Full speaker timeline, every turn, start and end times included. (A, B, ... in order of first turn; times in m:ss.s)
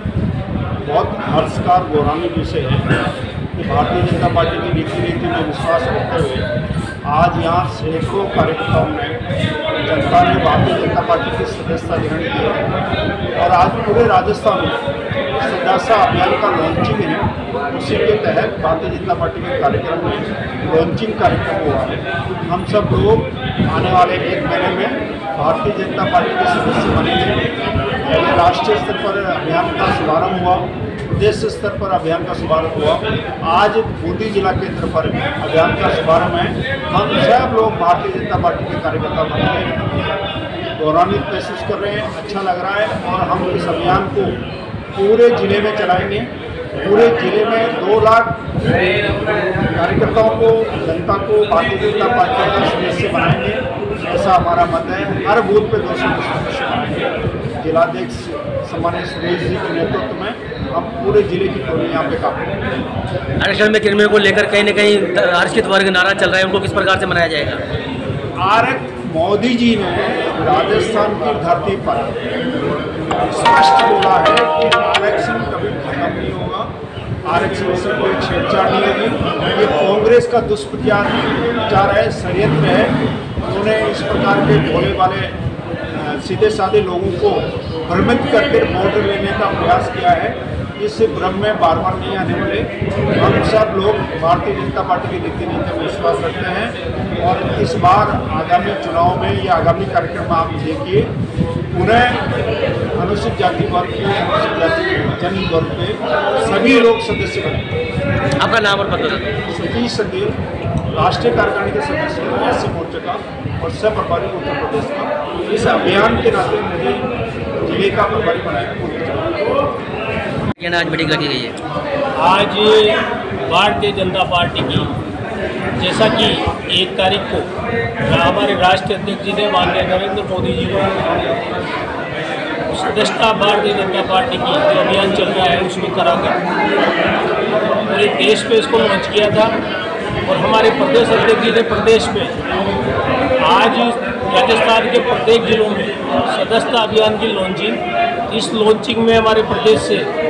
0:00.8-0:02.9 A
0:03.6-0:06.5 A
0:07.1-0:09.2 A
0:09.8-0:12.6 A
0:13.4-0:14.8 A
0:15.4-0:27.4 A
0:28.0-0:39.9 A
0:40.8-0:44.4 A
0:44.9-1:02.6 A
1:03.4-1:07.6 B
1:08.4-1:12.2 A
1:13.2-1:16.7 A
1:17.2-1:25.4 A
1:25.9-1:41.1 A
1:41.7-1:42.3 A
1:43.0-1:47.7 A
1:48.4-1:49.3 B
1:49.5-1:50.4 A
1:50.9-1:57.1 A
1:57.6-1:59.3 A
2:00.6-2:01.6 B
2:02.2-2:05.0 C
2:05.8-2:07.5 C
2:08.0-2:11.1 C
2:12.7-2:16.4 C
2:17.9-2:19.5 C
2:20.2-2:22.4 C
2:23.4-2:30.1 C